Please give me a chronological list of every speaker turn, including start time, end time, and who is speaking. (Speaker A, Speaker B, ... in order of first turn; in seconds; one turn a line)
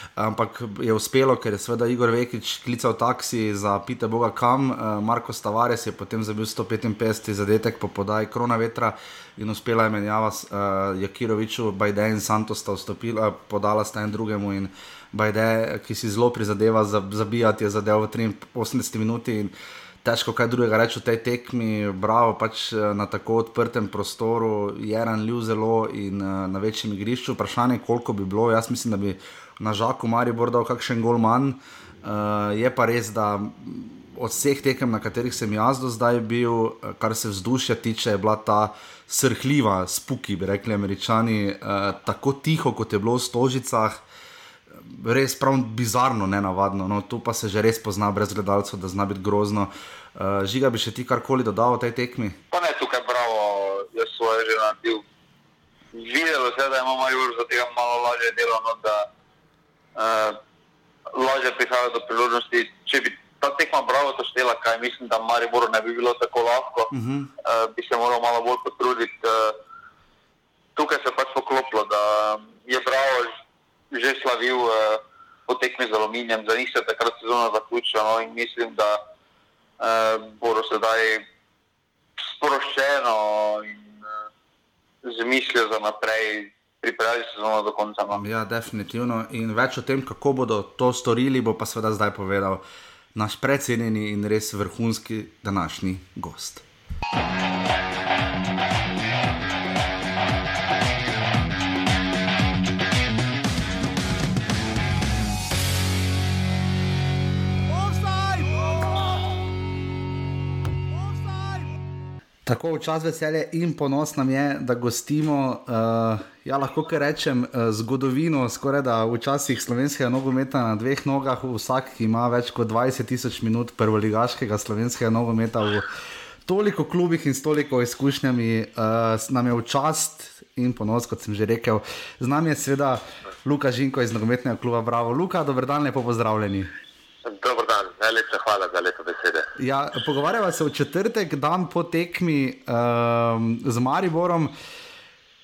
Speaker A: 0.2-44.0
Speaker A: 44.7-52.4
Speaker B: 52.5-55.0
Speaker B: 55.9-59.1
Speaker B: 60.0-60.4
Speaker B: 61.1-66.9
Speaker A: 66.9-67.3
Speaker B: 67.4-69.5
Speaker B: 70.8-73.3
Speaker B: 73.9-79.0
Speaker B: 79.8-81.2
Speaker B: 82.2-84.1
Speaker B: 85.0-88.2
Speaker A: 88.2-92.6
Speaker A: 93.1-96.6
Speaker A: 112.5-125.8
Speaker A: 126.5-136.7
Speaker C: 137.2-139.5
Speaker A: 139.6-144.5